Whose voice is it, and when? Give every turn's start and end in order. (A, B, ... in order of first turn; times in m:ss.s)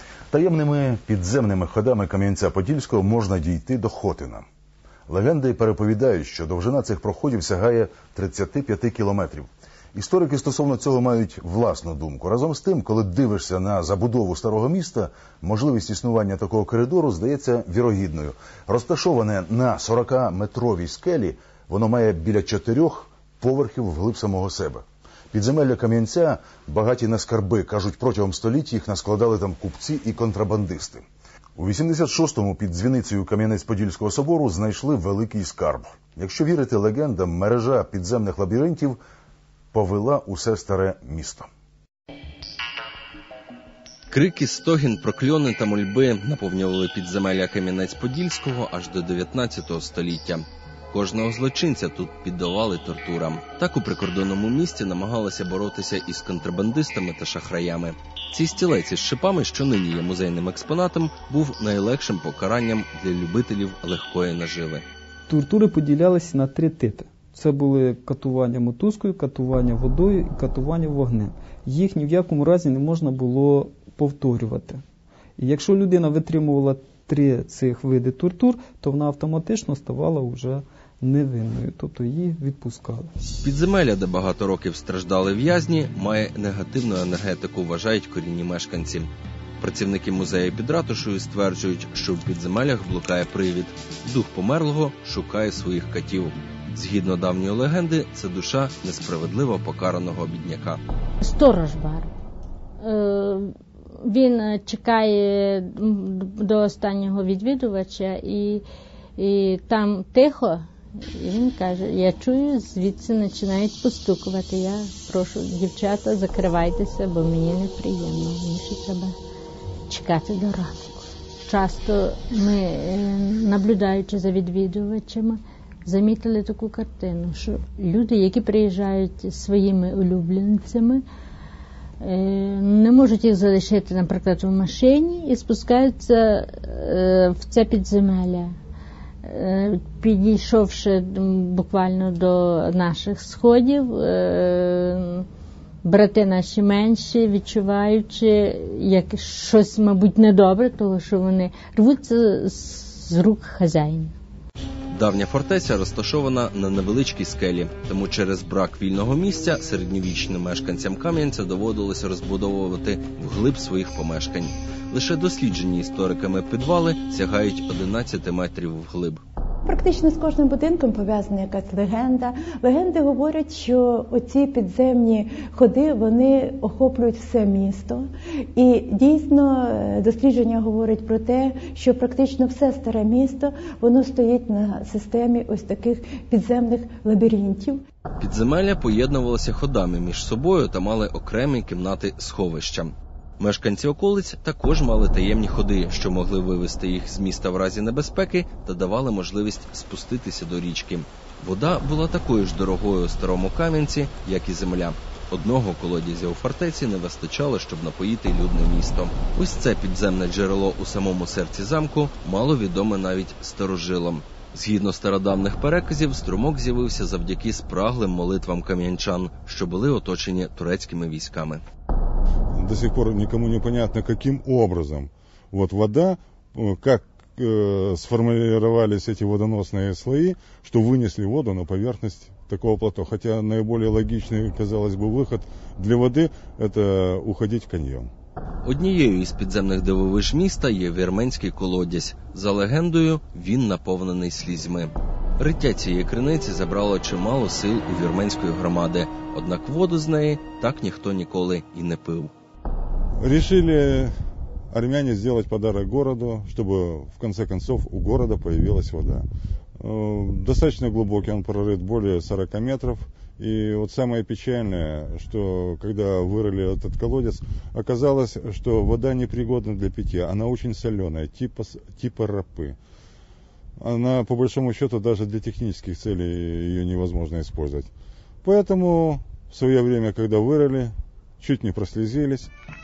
0:00.3-0:04.4 A
0:05.1-0:31.1 A
0:31.6-0:39.0 A
0:39.7-0:41.5 A
0:44.1-1:04.8 B
1:05.3-1:14.8 C
1:15.4-1:23.1 C
1:23.4-1:40.8 B
1:41.2-1:42.1 D
1:42.8-1:48.6 D
1:49.2-1:59.1 D
1:59.9-2:11.0 D
2:12.0-2:18.5 D
2:19.2-2:25.2 D
2:25.8-2:34.1 D
2:34.9-2:49.2 B
2:49.6-3:07.8 E
3:08.2-3:41.6 B
3:42.5-3:58.1 F
3:58.6-4:12.3 B
4:13.2-4:14.1 F
4:14.7-4:19.3 F
4:19.8-4:32.8 F
4:33.8-4:37.9 F
4:38.4-4:42.5 F